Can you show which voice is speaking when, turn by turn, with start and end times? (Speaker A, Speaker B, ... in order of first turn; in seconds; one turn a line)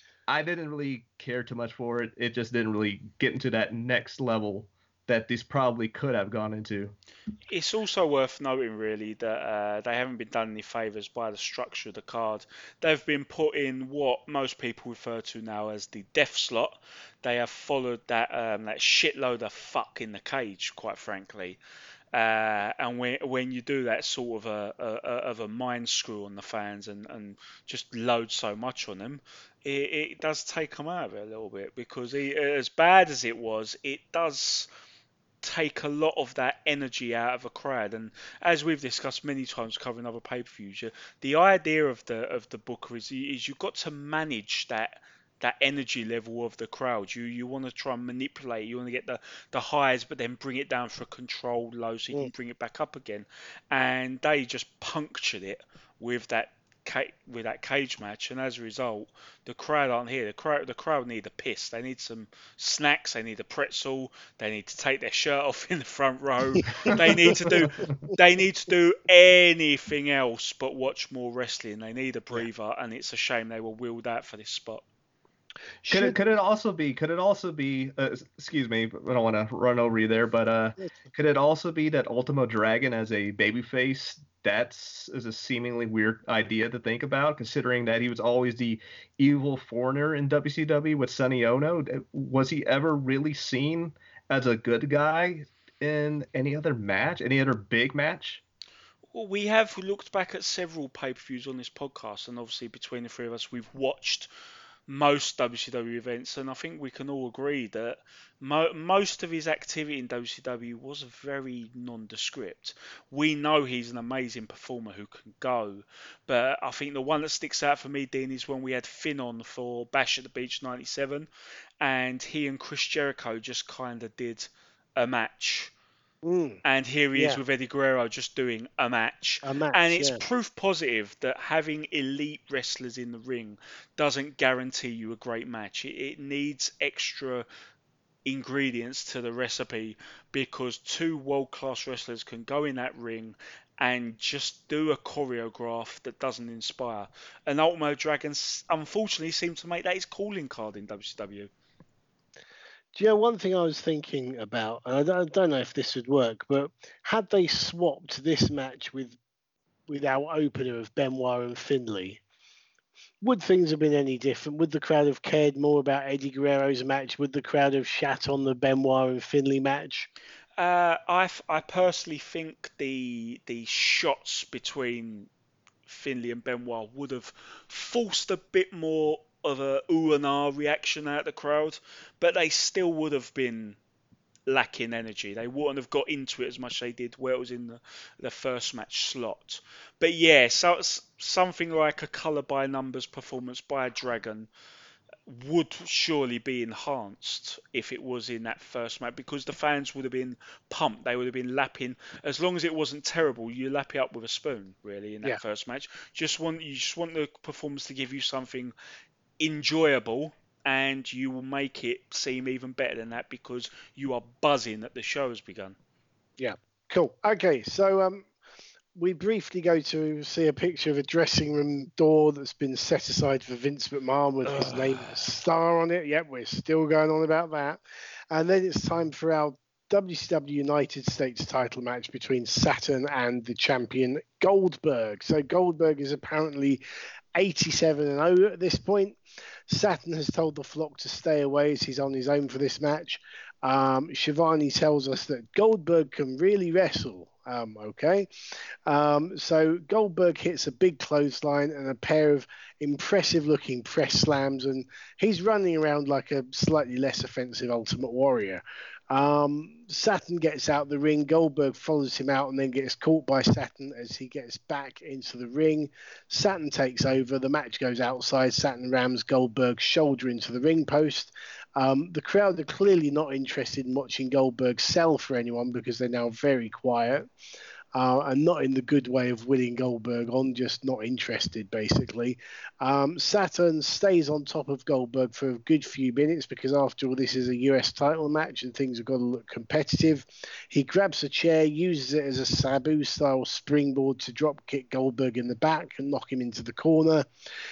Speaker A: 0.3-6.9
Speaker B: 7.5-21.6
Speaker B: 22.1-34.7
Speaker B: 35.4-74.8
Speaker C: 66.6-67.7
Speaker C: 75.8-76.2
Speaker A: 75.9-98.4
Speaker B: 99.1-104.3
Speaker B: 104.9-121.3
Speaker B: 121.8-125.7
Speaker C: 126.2-126.6
Speaker B: 126.7-137.5
Speaker C: 127.2-127.4
Speaker C: 129.4-130.2
Speaker B: 138.3-151.5
Speaker C: 152.9-159.2
Speaker C: 159.9-162.2
Speaker C: 163.2-170.1
Speaker B: 170.6-175.3
Speaker B: 175.9-183.8
Speaker B: 184.5-194.5
Speaker B: 195.3-208.7
Speaker B: 209.4-215.8
Speaker C: 216.4-218.3
Speaker C: 219.0-236.8
Speaker B: 224.5-225.1
Speaker C: 237.3-239.2
Speaker C: 239.7-248.3
Speaker C: 248.9-277.3
Speaker C: 277.9-297.3